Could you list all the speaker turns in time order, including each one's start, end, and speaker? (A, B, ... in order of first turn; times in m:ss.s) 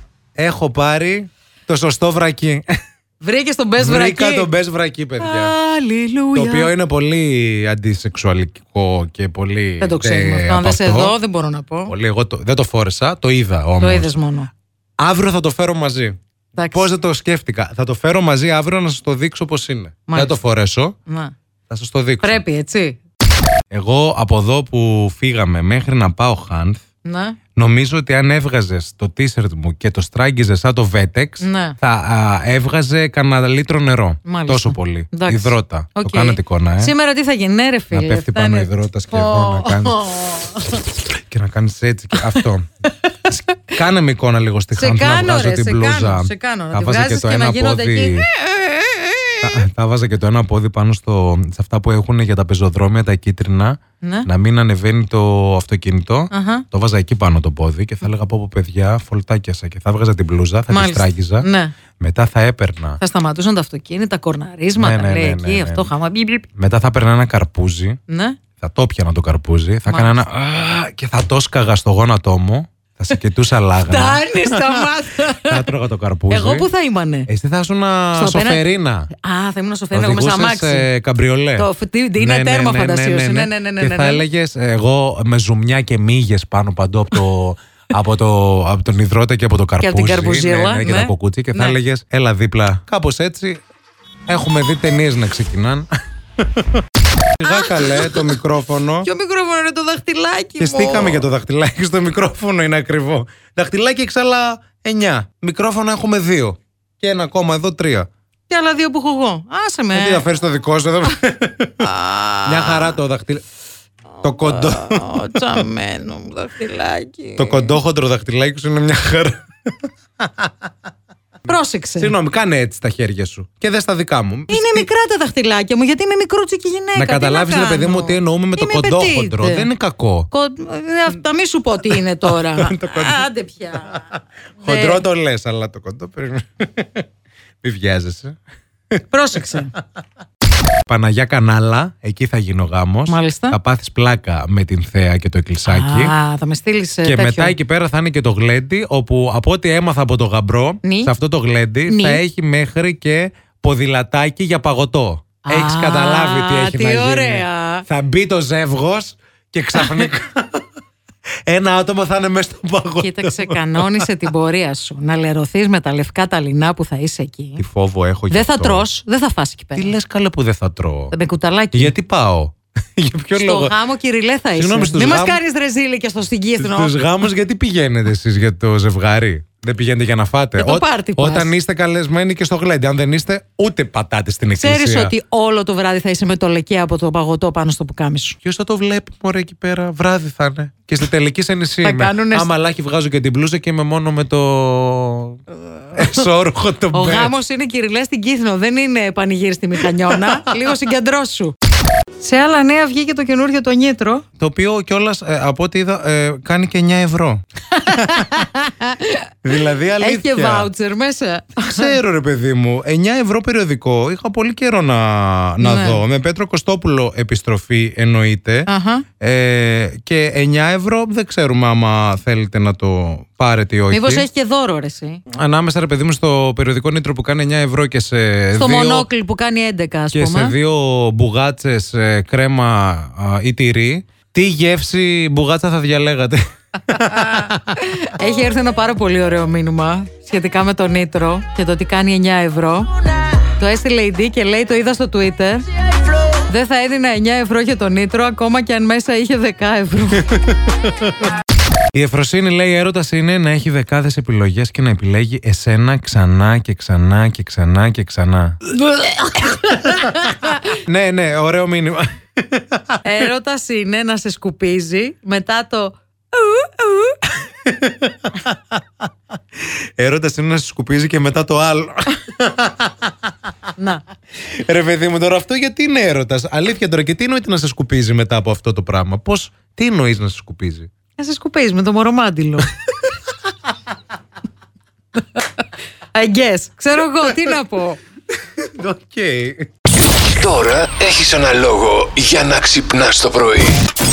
0:00.4-0:02.6 A
0:03.2-0:04.5 B
0:03.8-0:05.5 A
0:05.2-0:06.7 B
0:06.3-0:11.2 A
0:09.8-0:11.9 B
0:11.8-0:14.1 A
0:13.8-0:14.5 B
0:15.0-0:16.2 A
0:16.5-0:16.8 B
0:16.7-0:20.9 A
0:20.1-0:20.4 B
0:21.1-0:21.3 B
0:21.7-0:22.4 A
0:22.2-0:23.0 B
0:23.7-0:26.8 A
0:27.0-0:27.4 B
0:27.6-0:36.9 A
0:31.4-0:31.8 B
0:34.2-0:40.8 B
0:37.9-0:42.7 A
0:42.2-0:42.4 B
0:43.1-0:43.7 B
0:43.7-0:48.3 A
0:44.7-0:49.6 B
0:49.4-1:01.5 A
0:54.0-0:54.3 B
0:56.3-0:56.6 B
1:00.7-1:01.7 B
1:02.0-1:03.0 A
1:03.0-1:06.5 B
1:04.8-1:05.9 A
1:06.6-1:08.0 A
1:08.1-1:08.4 B
1:08.6-1:16.7 A
1:09.9-1:10.2 B
1:13.8-1:15.7 B
1:16.3-1:17.3 B
1:17.3-1:19.1 A
1:18.1-1:20.9 B
1:19.9-1:33.6 A
1:21.6-1:24.2 B
1:29.8-1:31.8 B
1:34.3-1:35.9 A
1:36.4-1:39.1 A
1:37.4-1:38.3 B
1:39.0-1:41.2 B
1:40.6-1:48.1 A
1:48.5-1:50.3 B
1:49.9-1:51.9 A
1:51.8-1:53.0 B
1:52.4-1:53.4 A
1:54.2-1:55.5 A
1:54.2-1:57.8 B
1:57.4-1:59.4 A
2:00.2-2:00.5 A
2:01.4-2:02.1 B
2:01.5-2:04.9 A
2:04.5-2:09.7 B
2:06.9-2:10.3 A
2:10.3-2:14.1 B
2:12.3-2:13.3 A
2:14.6-2:15.0 B
2:14.6-2:17.0 A
2:17.6-2:18.4 A
2:19.1-2:19.7 B
2:20.9-2:26.1 A
2:23.1-2:23.6 B
2:25.6-2:27.6 B
2:27.0-2:40.6 A
2:30.8-2:31.1 B
2:31.9-2:32.2 B
2:35.4-2:37.8 B
2:39.8-2:40.0 B
2:41.5-2:44.1 A
2:43.0-2:47.6 B
2:47.6-2:48.8 A
2:48.3-2:49.9 B
2:49.8-2:51.1 A
2:51.1-2:51.9 B
2:51.7-2:53.7 A
2:53.3-2:57.0 B
2:54.5-2:55.4 A
2:56.6-3:05.1 A
3:00.6-3:01.5 B
3:04.6-3:08.4 B
3:08.4-3:15.4 A
3:11.8-3:12.5 B
3:15.9-3:17.3 A
3:16.9-3:21.5 B
3:20.1-3:20.5 A
3:22.2-3:24.2 B
3:24.4-3:28.4 A
3:27.7-3:29.3 B
3:29.4-3:30.7 A
3:30.0-3:32.0 B
3:31.6-3:38.7 A
3:35.6-3:36.0 B
3:38.7-3:39.0 B
3:39.2-3:44.2 A
3:43.9-3:45.2 B
3:45.3-3:49.1 A
3:48.6-3:50.6 B
3:50.1-3:57.8 A
3:57.2-4:02.9 B
4:03.4-4:05.6 B
4:06.4-4:10.3 B
4:10.2-4:11.1 A
4:11.9-4:18.7 A
4:18.8-4:20.7 B
4:19.6-4:23.0 A
4:23.0-4:27.2 B
4:27.6-4:28.8 A
4:29.6-4:33.1 A
4:33.8-4:34.0 B
4:34.4-4:40.9 A
4:41.2-4:42.7 B
4:46.1-4:48.0 B
4:48.6-4:49.7 A
4:50.2-4:53.9 C